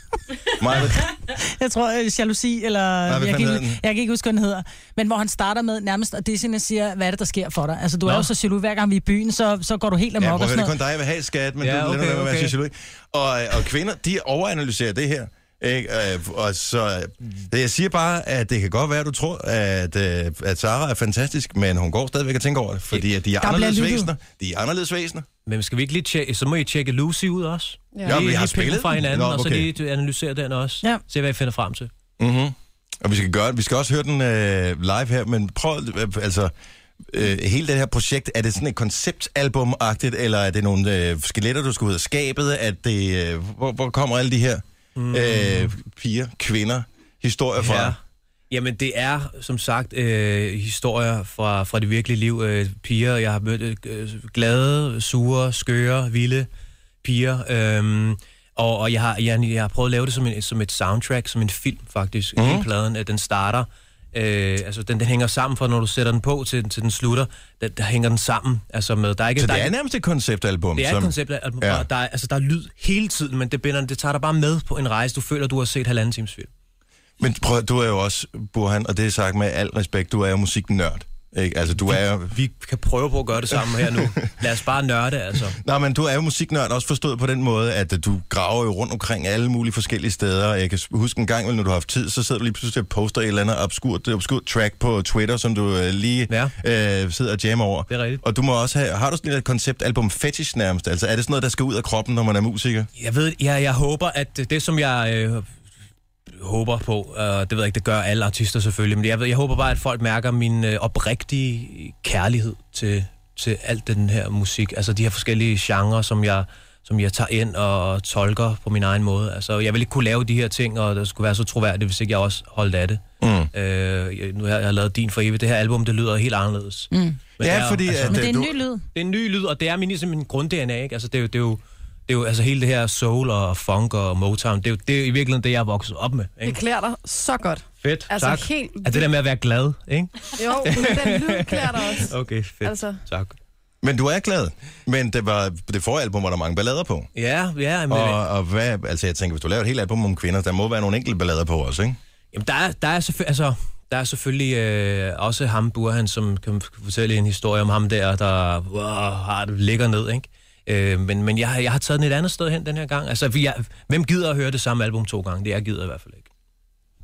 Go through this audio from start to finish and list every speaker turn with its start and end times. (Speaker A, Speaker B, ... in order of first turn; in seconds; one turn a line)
Speaker A: 0.6-1.1
Speaker B: 1.3-10.8
Speaker A: 3.1-3.8
Speaker A: 10.2-25.3
Speaker C: 11.6-12.5
Speaker B: 23.4-24.1
Speaker C: 25.5-31.9
Speaker D: 27.9-28.3
Speaker A: 28.1-29.7
Speaker A: 32.2-36.5
Speaker A: 37.1-48.0
Speaker C: 45.0-45.7
Speaker C: 47.6-48.0
Speaker C: 48.5-56.5
Speaker C: 57.0-69.7
Speaker A: 62.4-62.7
Speaker A: 69.4-71.9
Speaker C: 70.8-76.5
Speaker A: 77.2-82.4
Speaker C: 81.9-85.6
Speaker A: 83.5-84.2
Speaker A: 85.5-102.9
Speaker C: 96.3-96.5
Speaker C: 97.9-98.2
Speaker C: 103.0-105.5
Speaker C: 106.3-123.0
Speaker A: 123.2-123.5
Speaker C: 123.5-128.3
Speaker B: 126.9-127.2
Speaker A: 127.4-128.6
Speaker B: 128.1-128.8
Speaker C: 128.9-136.6
Speaker D: 136.4-139.1
Speaker C: 137.8-143.4
Speaker D: 140.4-143.0
Speaker A: 143.8-147.1
Speaker C: 147.2-148.2
Speaker A: 147.9-152.0
Speaker C: 152.3-166.3